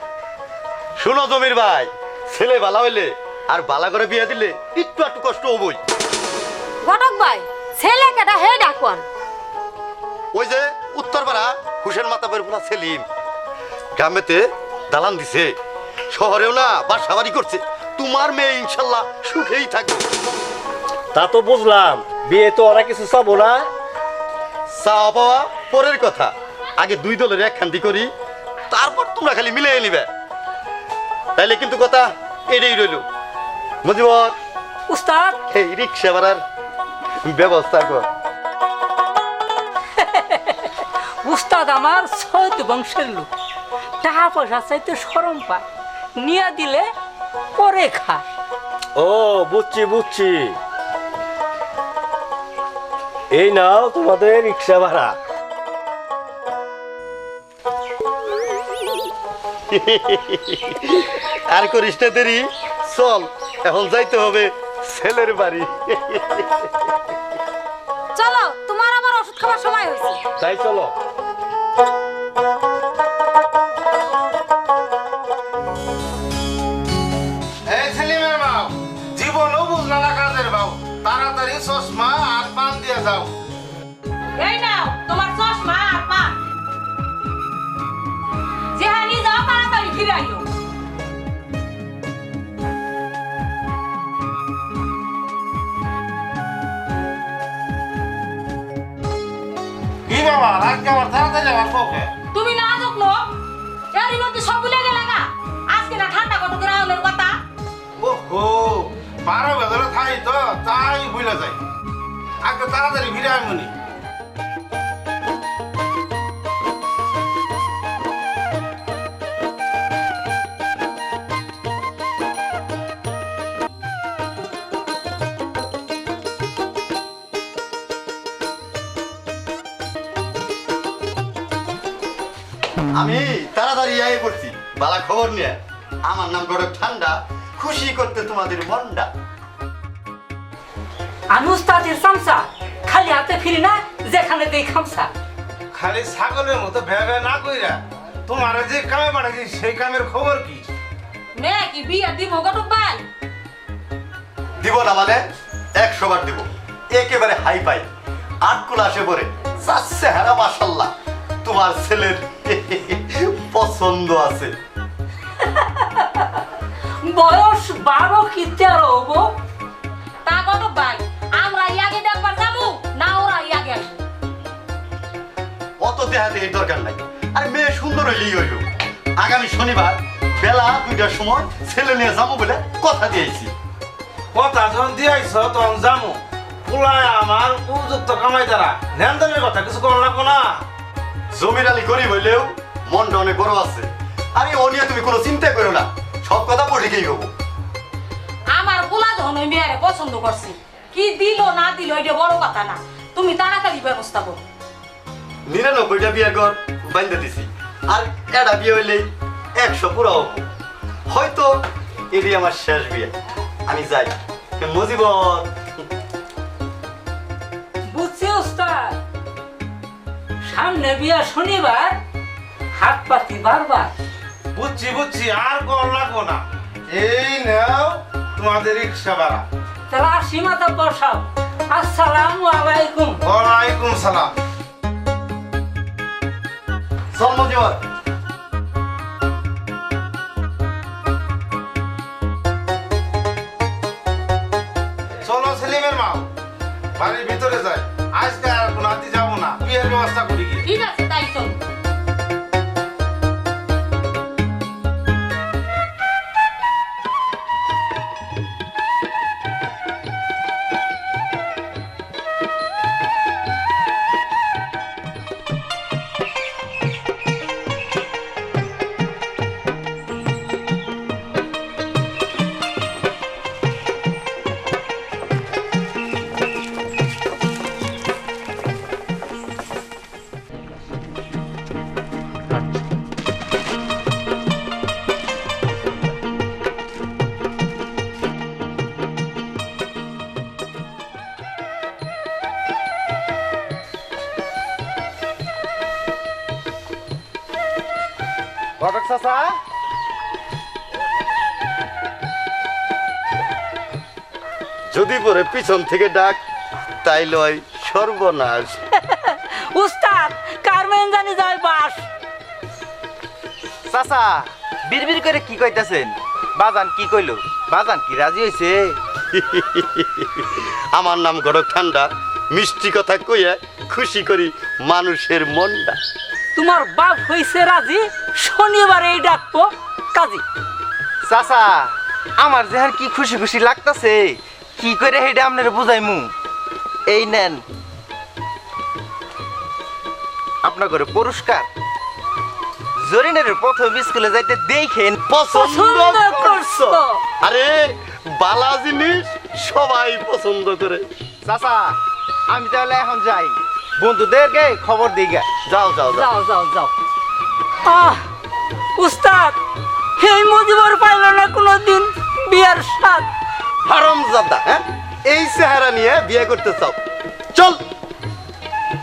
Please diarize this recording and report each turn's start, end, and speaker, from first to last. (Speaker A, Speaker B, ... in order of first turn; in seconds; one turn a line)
Speaker A: 1.0-5.8
Speaker B: 6.8-9.0
Speaker A: 10.3-13.0
Speaker A: 14.0-15.5
Speaker A: 16.1-20.1
Speaker C: 21.1-23.6
Speaker A: 24.7-28.1
Speaker A: 28.7-30.1
Speaker A: 31.4-33.0
Speaker A: 33.8-34.3
Speaker D: 34.9-35.4
Speaker A: 35.5-36.4
Speaker A: 37.2-38.0
Speaker D: 40.0-43.3
Speaker D: 44.0-45.6
Speaker D: 46.2-46.9
Speaker D: 47.5-48.2
Speaker C: 49.0-50.5
Speaker C: 53.3-55.1
Speaker A: 59.7-66.7
Speaker B: 68.2-70.2
Speaker C: 70.4-70.9
Speaker E: 77.7-83.3
Speaker B: 84.4-86.3
Speaker B: 88.8-90.4
Speaker E: 100.1-102.1
Speaker B: 102.3-103.3
Speaker B: 103.9-107.4
Speaker E: 108.0-111.6
Speaker E: 112.4-113.7
Speaker A: 132.9-139.1
Speaker D: 141.3-145.1
Speaker E: 145.7-150.6
Speaker B: 151.4-153.0
Speaker A: 154.6-155.2
Speaker A: 155.8-157.9
Speaker A: 158.4-160.9
Speaker A: 161.4-164.5
Speaker D: 165.4-166.2
Speaker D: 167.1-169.3
Speaker B: 170.2-173.9
Speaker A: 175.8-178.7
Speaker A: 179.2-183.5
Speaker E: 184.3-190.6
Speaker A: 191.3-197.3
Speaker B: 198.5-204.4
Speaker A: 205.5-210.4
Speaker A: 211.1-211.6
Speaker A: 212.1-213.1
Speaker A: 213.7-215.5
Speaker D: 217.9-219.0
Speaker D: 220.4-222.0
Speaker D: 222.7-223.9
Speaker E: 224.5-229.4
Speaker D: 229.9-233.2
Speaker E: 233.2-234.3
Speaker A: 237.1-237.8
Speaker E: 245.2-246.3
Speaker E: 247.0-250.6
Speaker B: 250.7-251.6
Speaker F: 298.8-299.5
Speaker A: 304.9-306.4
Speaker A: 307.0-308.8
Speaker D: 309.0-312.1
Speaker F: 313.9-319.0
Speaker A: 319.3-326.0
Speaker D: 326.5-330.4
Speaker F: 331.2-336.3
Speaker F: 337.1-337.6
Speaker F: 340.6-341.7
Speaker F: 343.0-345.2
Speaker A: 345.3-351.0
Speaker D: 345.5-347.2
Speaker F: 351.4-355.5
Speaker A: 355.6-356.3
Speaker D: 356.2-356.9
Speaker D: 357.8-358.2
Speaker D: 359.0-359.6
Speaker D: 360.2-363.3
Speaker A: 363.8-367.0
Speaker A: 367.5-367.8